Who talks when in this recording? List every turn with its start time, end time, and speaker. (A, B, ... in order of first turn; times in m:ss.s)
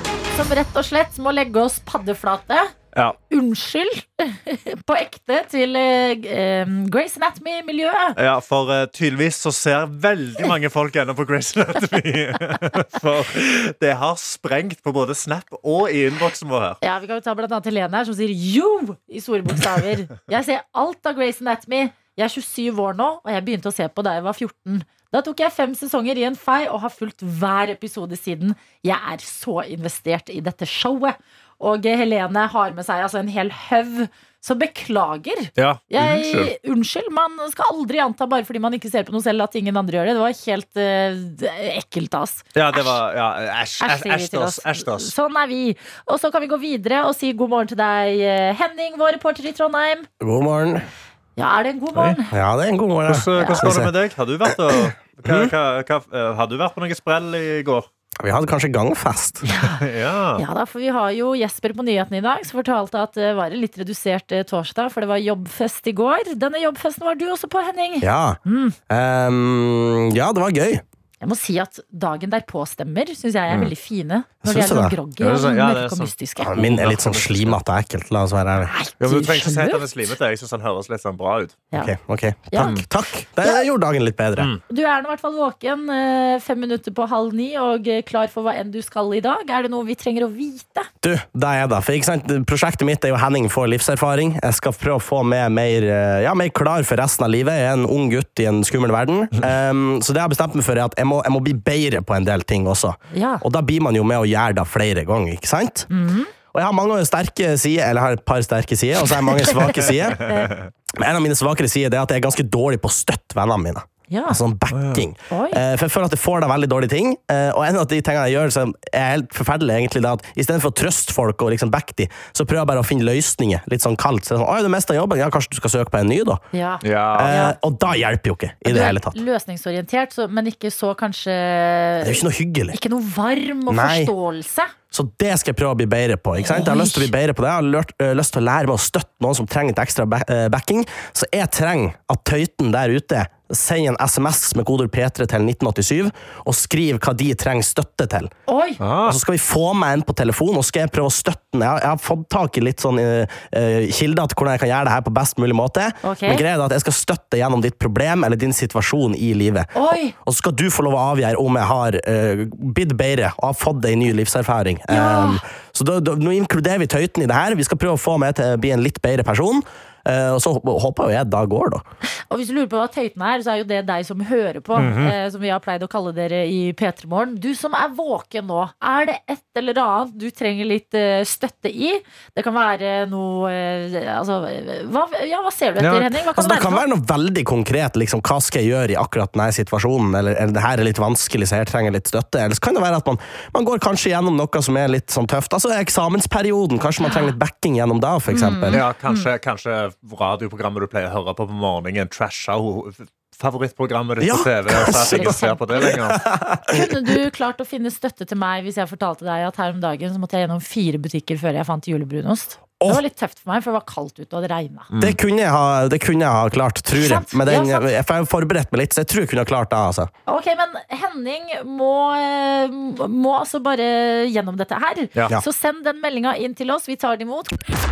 0:00.3-0:02.7 A
0:03.3-0:08.2 A
0:08.2-0:16.8 B
0:16.8-0:43.0 A
0:35.6-0:36.5 B
0:42.5-0:45.1 B
0:43.8-0:50.1 A
0:50.2-0:50.8 C
0:51.4-0:52.3 A
0:52.3-0:53.9 C
0:53.1-0:57.9 B
0:53.4-0:53.8 A
0:54.5-0:55.5 C
0:58.2-0:59.4 C
0:59.5-0:59.8 A
0:59.6-1:00.4 B
1:00.4-1:08.8 A
1:08.0-1:10.8 C
1:11.2-1:16.6 A
1:14.4-1:15.0 C
1:15.2-1:17.6 B
1:16.4-1:18.7 C
1:18.6-1:19.8 A
1:19.0-1:21.7 B
1:21.8-1:24.5 C
1:22.5-1:22.8 A
1:22.6-1:22.8 B
1:24.4-1:24.6 B
1:24.7-1:30.9 A
1:31.0-1:45.9 C
1:43.1-1:43.4 A
1:45.9-1:46.3 A
1:46.5-1:50.3 C
1:49.3-1:50.5 A
1:50.1-1:50.6 B
1:51.0-2:06.4 C
1:54.1-1:54.4 A
1:54.7-1:55.0 B
1:55.3-1:55.6 A
2:06.5-2:07.6 A
2:06.8-2:07.5 B
2:07.1-2:09.2 C
2:08.6-2:14.7 A
2:12.0-2:12.8 C
2:13.7-2:14.1 C
2:14.9-2:28.3 C
2:16.4-2:17.1 A
2:28.5-2:28.8 A
2:28.8-2:29.2 B
2:29.0-2:51.8 C
2:36.0-2:36.4 A
2:39.7-2:40.1 A
2:44.9-2:45.4 A
2:52.3-3:06.8 A
2:54.8-2:55.2 B
3:05.8-3:06.1 B
3:05.8-3:18.8 C
3:17.0-3:17.3 A
3:18.3-3:19.3 A
3:18.7-3:26.2 B
3:24.2-3:25.4 C
3:24.8-3:26.0 A
3:26.0-3:27.1 C
3:26.7-3:34.9 A
3:34.9-3:35.2 B
3:35.0-3:40.1 C
3:36.9-3:37.9 A
3:40.3-3:47.6 A